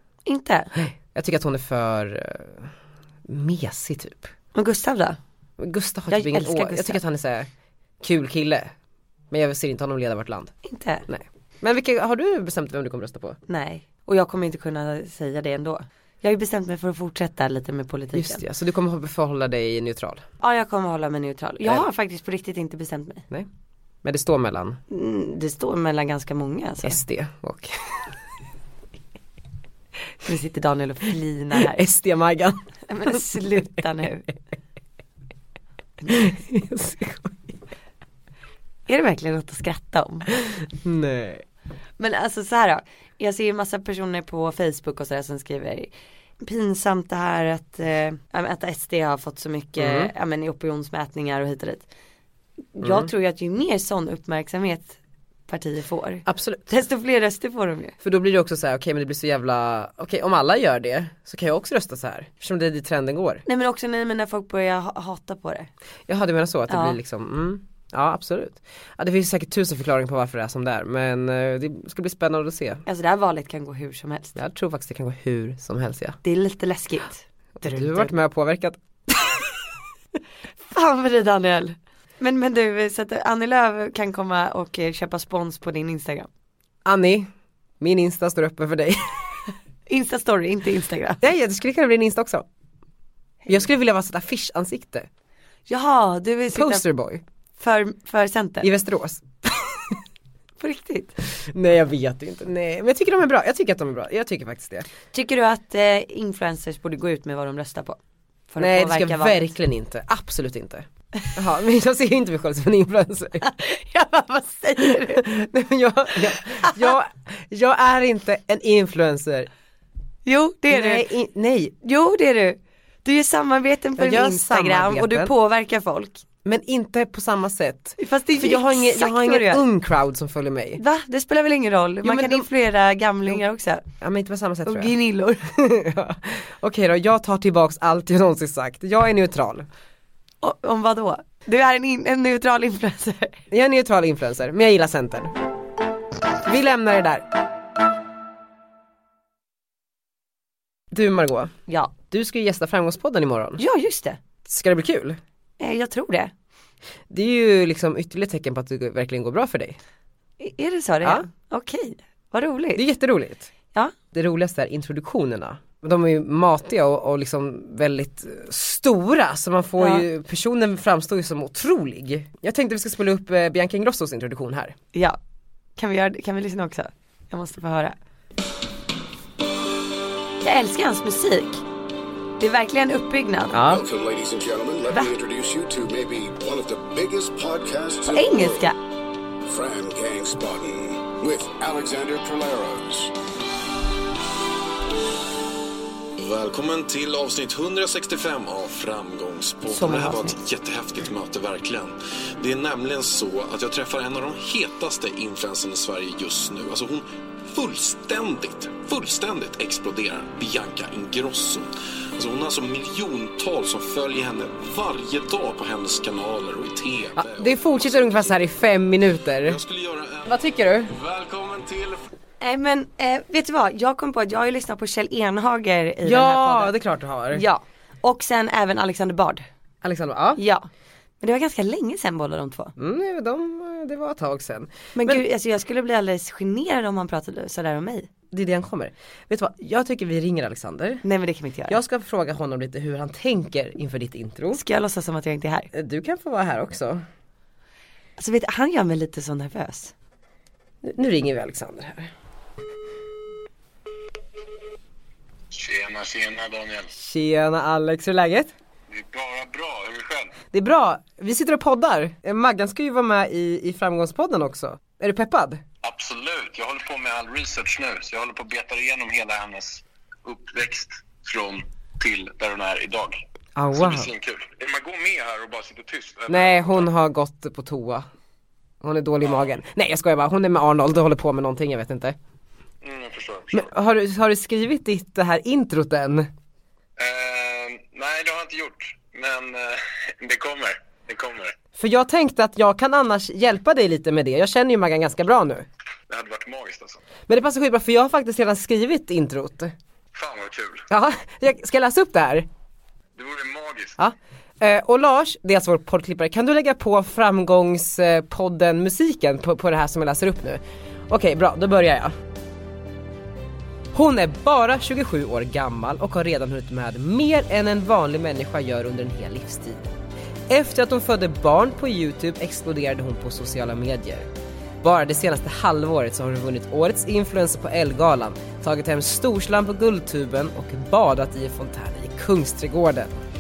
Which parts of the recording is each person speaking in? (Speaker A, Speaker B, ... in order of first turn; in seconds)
Speaker A: 0.2-0.7, 4.5-5.2, 6.1-7.0, 10.6-11.1, 13.5-18.4, 20.4-23.2, 24.9-27.0, 30.2-31.8, 32.9-34.3, 38.9-40.3, 42.0-51.9, 52.8-55.0, 55.5-58.0, 63.5-65.7, 66.7-67.0, 72.9-74.4, 76.2-78.1, 80.6-86.3, 89.9-91.2, 95.7-96.8, 97.6-98.7, 100.6-101.2, 105.1-108.0, 108.5-109.5, 113.4-115.2, 116.3-117.0, 120.2-121.1, 121.8-126.2, 128.0-129.6, 130.8-133.9, 134.7-135.4, 140.4-143.4, 151.7-151.9, 153.6-154.2, 155.6-156.3, 160.4-162.8, 169.8-170.1, 174.9-175.2, 175.8-178.0, 180.4-181.7, 182.4-183.6, 188.1-188.8, 199.7-200.4, 222.4-226.7, 227.3-229.5, 230.4-230.7, 231.2-232.7, 234.9-238.1, 241.0-241.8, 244.5-245.7, 248.2-249.9
Speaker B: 0.8-2.7, 3.3-4.3, 5.6-7.5, 8.0-8.7, 9.3-10.5, 11.1-13.4, 18.1-20.2, 24.0-24.8, 26.8-27.9, 31.7-32.6, 36.1-37.4, 40.5-41.5, 49.8-50.1, 52.8-53.1, 56.3-56.6, 58.0-63.4, 66.1-72.8, 74.4-76.2, 77.6-79.4, 86.8-89.2, 91.2-92.5, 93.5-95.1, 96.5-97.2, 98.6-100.0, 101.4-104.9, 108.6-113.4, 114.9-119.5, 120.7-121.7, 124.0-125.3, 126.4-130.8, 132.0-132.5, 134.0-134.9, 135.5-139.7, 143.5-145.3, 146.3-147.3, 150.9-151.5, 152.1-153.6, 154.4-155.2, 157.1-159.8, 162.8-163.5, 164.1-174.8, 183.5-183.8, 217.2-219.6, 220.3-220.9, 226.0-227.4, 229.8-230.4, 232.8-235.2, 238.3-241.0, 241.7-244.6, 245.7-247.0, 250.8-252.1, 256.9-258.5, 260.5-265.6, 273.6-274.1, 276.3-278.1, 278.8-282.2, 283.5-286.3, 291.8-295.7, 297.3-299.7, 300.9-302.5, 304.0-312.1, 313.9-319.9, 320.5-324.3, 324.8-333.1
Speaker C: 183.6-188.7, 189.4-193.1
Speaker D: 196.2-218.5, 219.4-222.1
Speaker E: 255.5-256.9, 258.9-260.4, 265.8-273.2, 273.7-276.9, 282.8-283.7, 287.0-291.6, 296.1-297.0, 300.1-300.9, 303.2-304.0